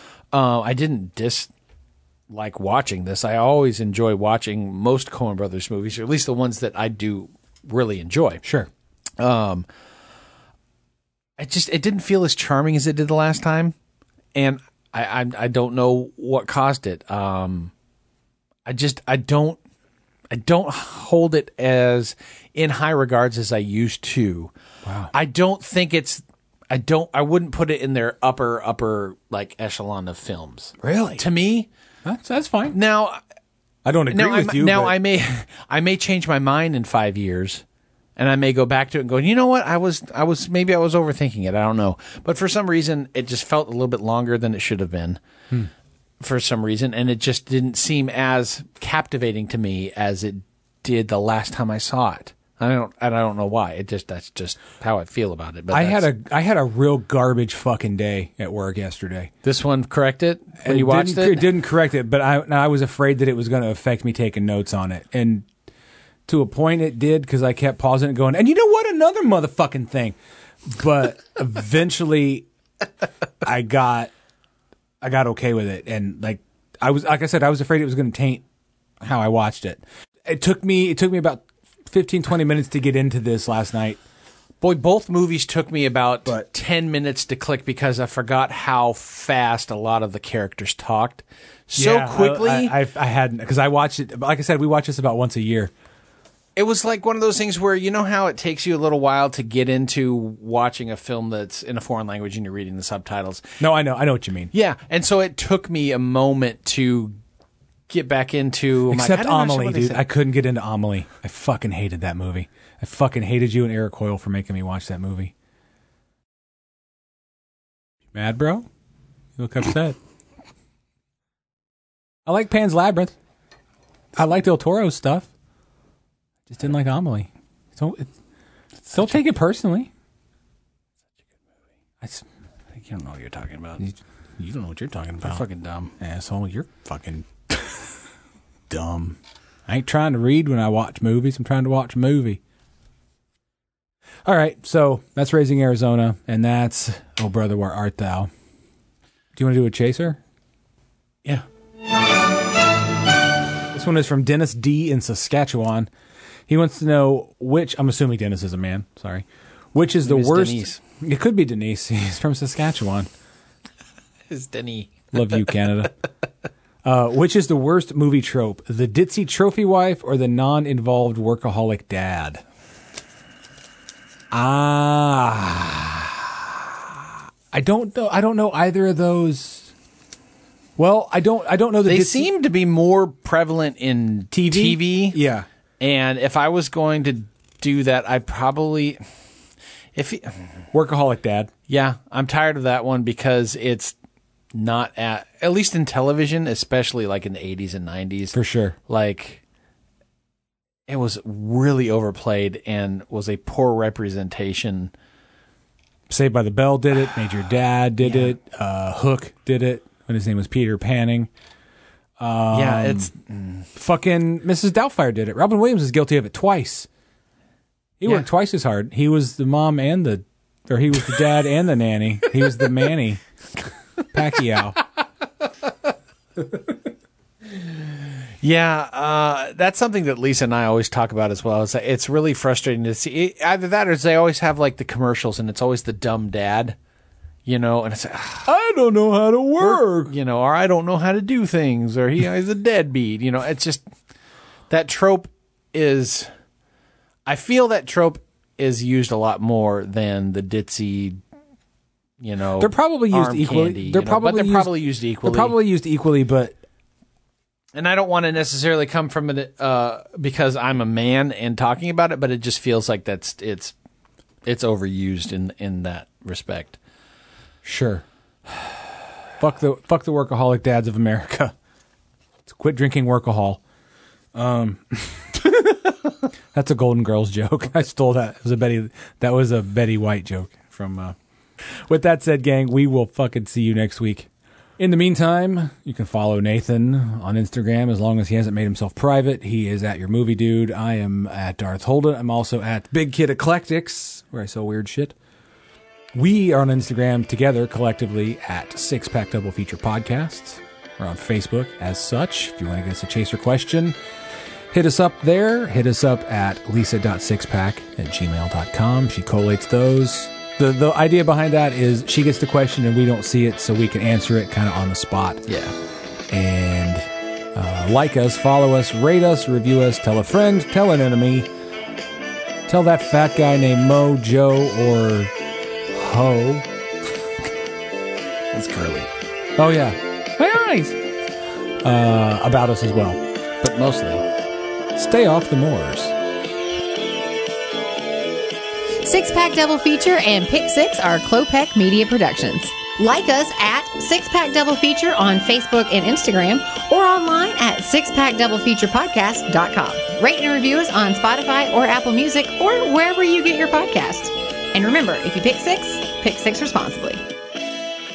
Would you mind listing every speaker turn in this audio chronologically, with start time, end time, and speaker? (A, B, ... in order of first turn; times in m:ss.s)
0:00.3-0:01.5 A
0:02.3-0:08.4 A
0:08.4-0:08.7 B
0:09.2-0:09.7 A
0:11.4-0:13.8 A
0:14.4-0:17.7 A
0:18.7-0:19.6 A
0:20.3-0:24.5 A
0:24.8-0:25.1 B
0:25.1-0:31.7 A
0:30.8-0:31.2 B
0:32.0-0:32.8 B
0:32.7-0:33.2 A
0:33.8-0:35.0 B
0:34.1-0:37.6 A
0:38.2-0:45.2 A
0:46.2-0:56.1 A
0:55.7-0:59.3 B
0:59.4-1:01.5 A
1:00.6-1:05.5 B
1:06.3-1:12.5 B
1:13.4-1:14.1 B
1:15.0-1:18.4 B
1:19.0-1:24.0 B
1:24.6-1:32.8 A
1:31.8-1:35.7 B
1:36.6-1:43.5 A
1:43.6-1:44.5 B
1:44.5-1:47.2 A
1:47.9-1:50.0 A
1:48.9-1:55.3 B
1:58.1-1:58.7 B
1:59.4-2:00.0 B
2:02.3-2:03.2 B
2:04.2-2:05.3 B
2:06.5-2:08.1 B
2:08.9-2:09.2 A
2:08.9-2:09.9 B
2:12.7-2:13.8 A
2:13.8-2:15.4 B
2:15.2-2:15.9 A
2:16.0-2:17.3 B
2:18.7-2:22.4 B
2:24.2-2:28.3 B
2:29.4-2:30.2 B
2:33.7-2:35.9 B
2:36.5-2:43.1 B
2:40.0-2:40.8 A
2:44.3-2:45.4 A
2:45.1-2:45.9 B
2:46.8-2:52.4 B
2:54.3-2:59.7 B
3:00.8-3:02.3 B
3:01.8-3:05.2 A
3:04.3-3:05.5 B
3:05.8-3:09.0 A
3:10.0-3:10.4 A
3:10.7-3:11.5 B
3:11.7-3:14.0 A
3:14.5-3:19.4 A
3:18.3-3:18.8 B
3:20.9-3:24.9 A
3:26.1-3:31.3 B
3:28.0-3:28.3 A
3:32.2-3:33.1 B
3:32.5-3:33.7 A
3:33.8-3:36.9 B
3:38.0-3:43.2 B
3:44.1-3:44.8 B
3:48.4-3:56.8 A
3:57.5-3:58.5 A
3:58.4-4:00.1 B
3:59.6-4:03.8 A
4:04.7-4:06.3 A
4:07.3-4:11.2 A
4:12.2-4:15.6 A
4:12.6-4:16.6 B
4:17.8-4:23.7 A
4:24.4-4:26.8 A
4:27.6-4:28.0 B
4:29.4-4:31.5 B
4:32.5-4:33.6 B
4:34.3-4:41.2 B
4:41.9-4:55.2 B
4:56.1-5:04.0 B
5:04.7-5:15.5 B
5:15.5-5:15.8 A
5:16.3-5:21.5 B
5:22.7-5:25.3 B
5:25.9-5:26.7 B
5:28.5-5:29.1 A
5:29.6-5:31.0 B
5:31.8-5:33.2 B
5:33.6-5:34.2 A
5:35.0-5:36.2 B
5:39.0-5:57.2 C